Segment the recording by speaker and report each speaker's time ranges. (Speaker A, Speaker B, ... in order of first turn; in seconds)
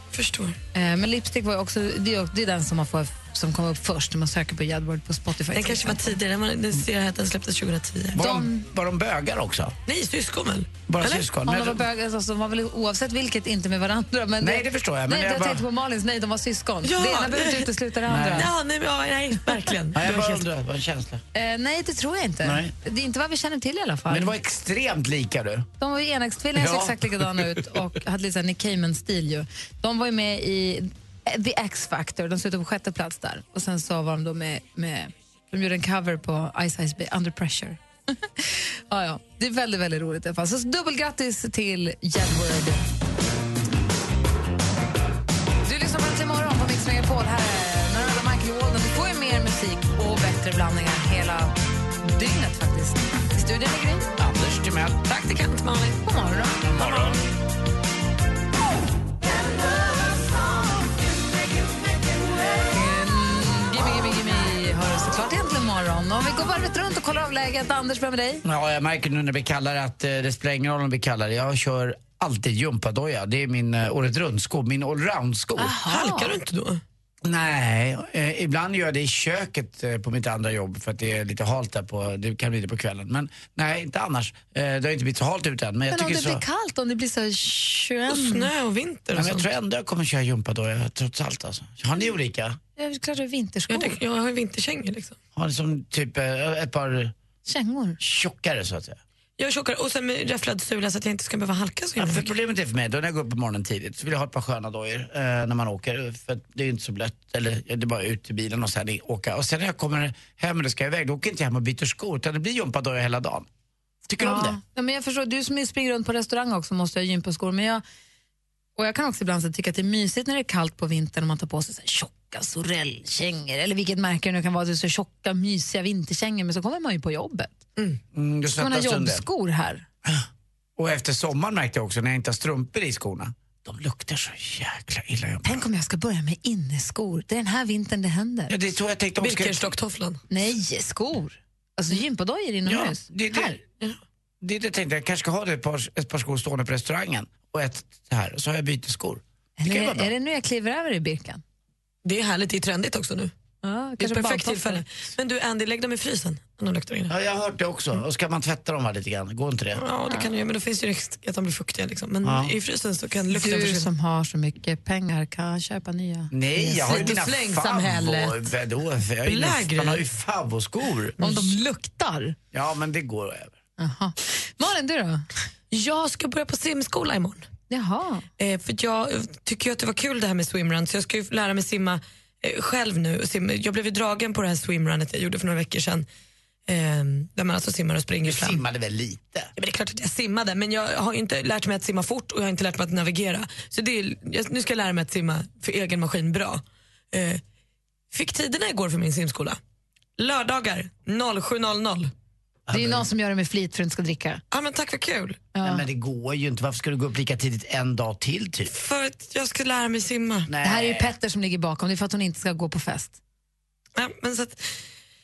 Speaker A: 0.1-0.6, 5.5-8.2, 9.8-11.2, 16.8-17.7, 18.2-20.4, 55.0-56.0, 75.8-76.8, 88.1-89.5, 93.7-95.2, 99.4-102.3, 139.2-140.2, 152.0-153.3, 154.0-157.1, 159.7-163.9, 166.7-168.3, 169.2-170.1, 171.2-171.6, 175.7-177.5, 178.4-186.1, 186.7-188.6, 189.6-197.4, 198.1-199.6, 200.2-202.1, 204.5-205.4, 208.7-210.5, 213.9-214.8
Speaker B: 0.7-6.2, 8.2-8.6, 11.4-18.5, 21.3-24.4, 25.8-42.9, 45.6-54.1, 56.0-57.2, 62.7-68.4, 75.6-76.4, 85.9-88.5, 92.8-94.0, 97.5-98.0, 114.2-117.8, 118.8-127.6, 128.5-129.8, 135.4-138.5, 140.3-143.6, 149.6-151.4, 153.6-154.8, 163.3-168.1, 171.2-172.3, 173.8-175.2, 177.7-178.3, 202.7-204.4, 205.5-205.8, 210.6-213.2
Speaker C: 8.1-9.7, 10.9-11.8, 14.4-15.6, 18.1-18.5, 19.9-21.2, 22.4-22.7, 24.1-25.7, 26.5-27.8, 54.2-55.0, 56.6-57.2, 68.4-75.8, 77.2-86.4, 89.1-92.6, 95.3-97.1, 98.0-99.0, 102.0-113.5, 114.1-114.6, 128.1-129.2, 130.0-135.6, 138.5-139.7, 142.7-143.6, 144.4-150.1, 157.1-159.8, 162.2-162.5, 166.3-171.2, 172.5-173.6, 188.2-189.5, 202.7-203.1, 205.6-208.7, 210.5-211.1